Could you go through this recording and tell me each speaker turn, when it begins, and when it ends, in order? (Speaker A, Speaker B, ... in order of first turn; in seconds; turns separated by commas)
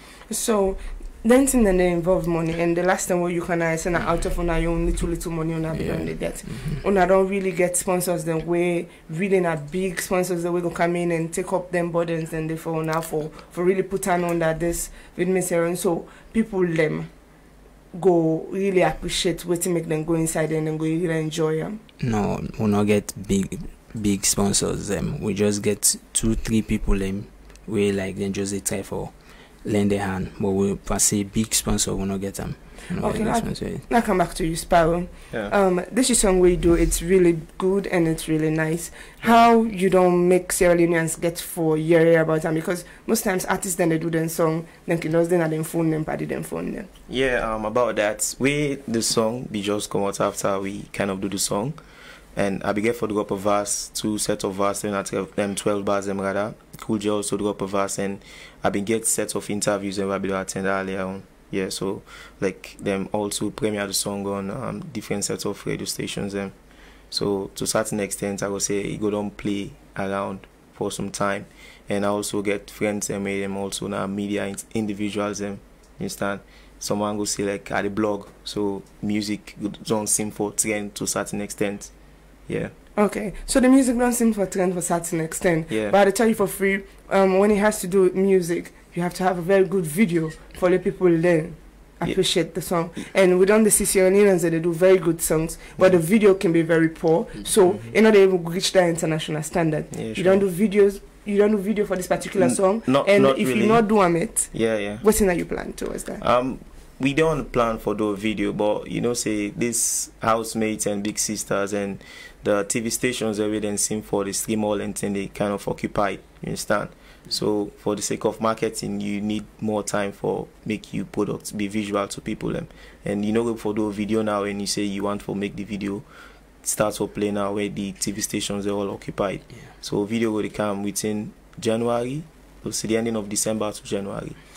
Speaker A: 0.3-17.1, Speaker B: 5.7-6.8, Speaker A: 17.9-21.8, Speaker B: 22.0-33.9, Speaker A: 33.0-46.9, Speaker C: 47.1-51.8, Speaker C: 52.4-66.5, Speaker C: 67.1-81.9, Speaker C: 82.5-82.7, Speaker A: 83.0-106.2, Speaker C: 85.7-86.0, Speaker C: 99.9-100.5, Speaker C: 102.4-105.0, Speaker C: 106.2-126.0, Speaker C: 126.6-134.4